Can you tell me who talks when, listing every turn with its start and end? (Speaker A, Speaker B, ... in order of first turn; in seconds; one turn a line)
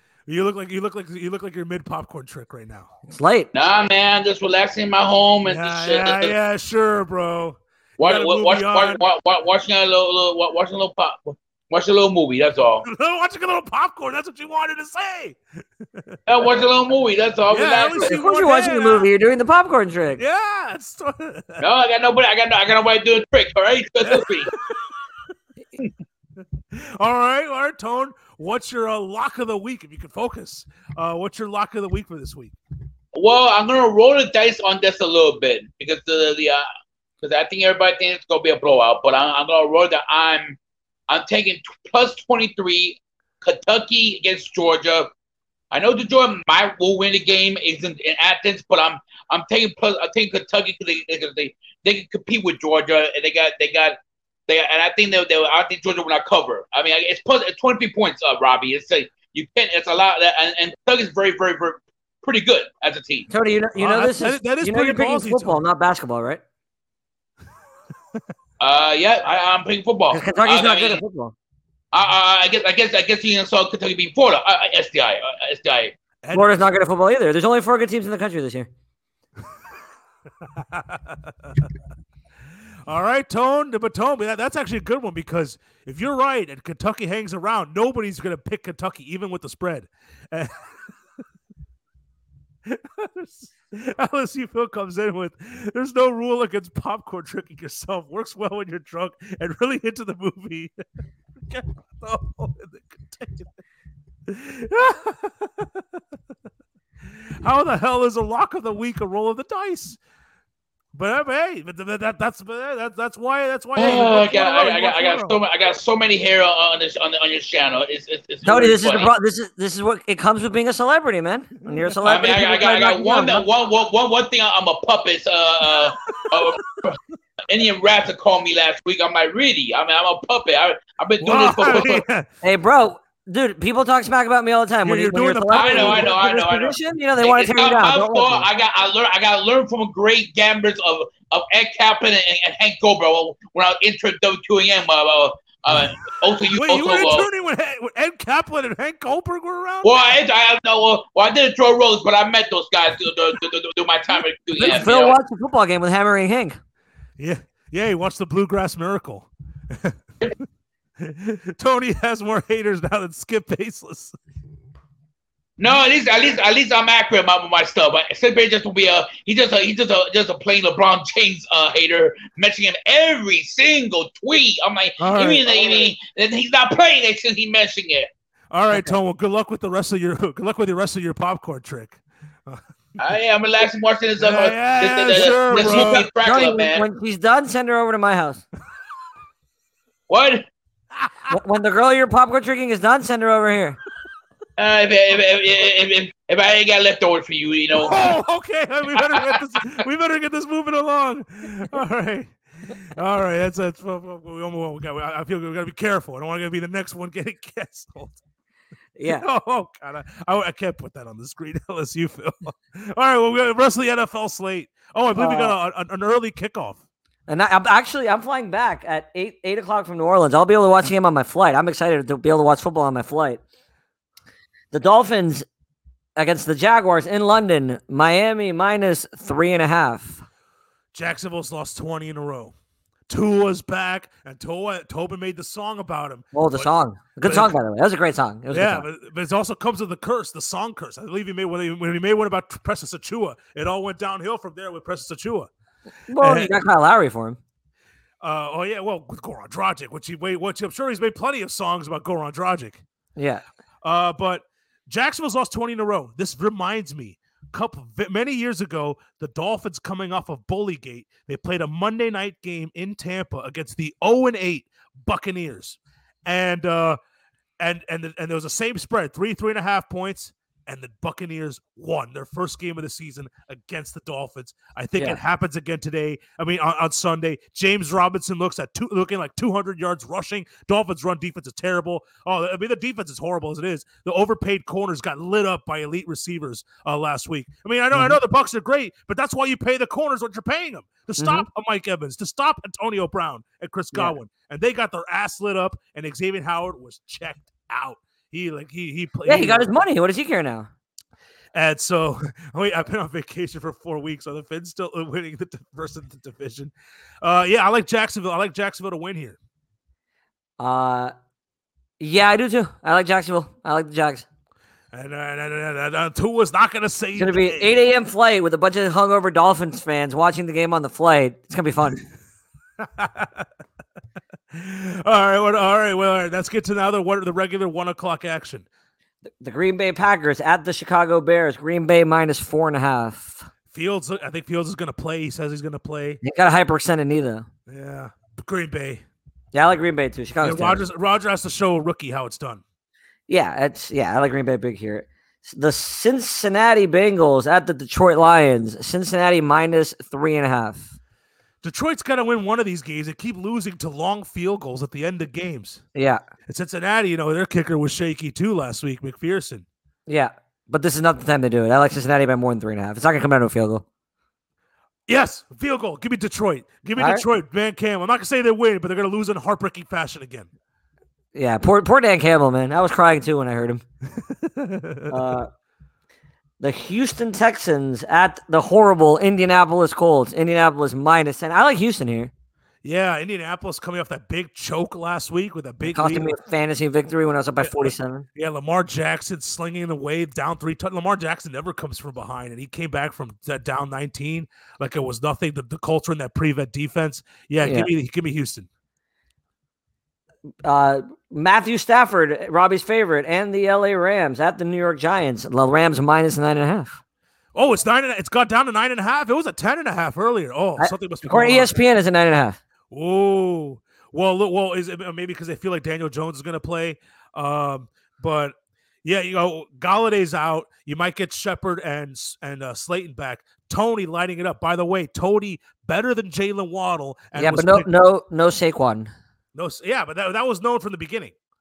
Speaker A: 0.3-2.9
Speaker B: 3.1-3.5
Speaker C: 3.5-6.3
Speaker A: 5.5-9.0
Speaker C: 8.0-12.8
Speaker A: 12.8-16.2
Speaker C: 16.3-18.1
Speaker A: 17.5-19.1
Speaker B: 17.9-20.2
Speaker A: 20.2-21.6
Speaker C: 21.6-24.5
Speaker A: 24.0-24.8
Speaker A: 26.7-32.5
Speaker C: 33.1-36.6
Speaker C: 37.2-40.6
Speaker C: 41.1-45.1
Speaker C: 45.7-54.0
Speaker C: 54.5-63.3
Speaker B: 63.3-66.4
Speaker A: 63.8-65.6
Speaker C: 68.6-71.0
Speaker B: 70.1-71.3
Speaker C: 71.9-76.0
Speaker A: 76.2-76.7
Speaker B: 76.3-78.7
Speaker A: 80.4-81.7
Speaker A: 82.9-90.9
Speaker A: 92.6-100.7
Speaker A: 101.3-103.5
Speaker A: 104.3-106.0
Speaker A: 107.4-110.0
Speaker A: 110.9-115.4
Speaker C: 113.8-119.1
Speaker B: 118.4-123.4
Speaker A: 121.7-122.4
Speaker C: 122.0-127.0
Speaker A: 126.1-126.6
Speaker C: 127.5-132.0
Speaker A: 131.2-132.3
Speaker B: 132.4-138.5
Speaker A: 134.8-136.2
Speaker C: 135.5-147.2
Speaker A: 146.5-149.9
Speaker C: 149.8-155.2
Speaker B: 154.6-156.6
Speaker A: 157.2-160.0
Speaker A: 161.0-164.1
Speaker C: 165.6-178.1
Speaker A: 175.0-175.5
Speaker A: 178.5-182.6
Speaker C: 183.0-186.8
Speaker A: 184.2-186.1
Speaker B: 185.5-188.4
Speaker C: 190.1-190.4
Speaker B: 191.3-193.8
Speaker C: 194.6-198.0
Speaker A: 197.7-208.2
Speaker C: 198.9-199.7
Speaker B: 209.0-209.2
Speaker A: 209.0-216.8
Speaker B: 215.2-215.5
Speaker B: 217.3-223.4
Speaker B: 224.7-225.4
Speaker B: 226.2-230.2
Speaker A: 230.9-232.5
Speaker A: 233.1-236.7
Speaker B: 236.3-238.8
Speaker A: 237.2-237.5
Speaker A: 238.5-245.5
Speaker B: 246.1-247.4
Speaker A: 246.2-246.5
Speaker A: 248.2-252.8
Speaker B: 253.2-253.4
Speaker A: 253.8-267.0
Speaker A: 267.6-299.7
Speaker B: 291.2-291.4
Speaker B: 299.2-300.7
Speaker A: 301.5-309.4
Speaker B: 310.6-311.1
Speaker B: 312.0-314.2
Speaker A: 314.9-317.8
Speaker B: 317.2-322.0
Speaker A: 322.8-323.5
Speaker A: 324.5-328.6
Speaker B: 329.4-333.5
Speaker A: 333.7-336.2
Speaker B: 336.2-337.5
Speaker A: 337.7-339.0
Speaker B: 339.5-340.8
Speaker A: 340.4-342.6
Speaker B: 343.3-350.9
Speaker A: 351.6-355.8
Speaker B: 355.9-356.2
Speaker A: 356.5-359.6
Speaker B: 360.1-363.8
Speaker A: 365.1-370.5
Speaker B: 367.0-367.2
Speaker B: 371.3-373.8
Speaker A: 374.1-375.4
Speaker B: 375.1-375.5
Speaker B: 376.6-382.3
Speaker A: 382.8-386.3
Speaker B: 385.8-388.2
Speaker A: 387.6-398.7
Speaker B: 397.6-397.9
Speaker B: 400.6-407.0
Speaker A: 407.5-411.7
Speaker B: 410.8-412.6
Speaker A: 412.9-427.9
Speaker B: 427.3-429.1
Speaker A: 429.5-431.3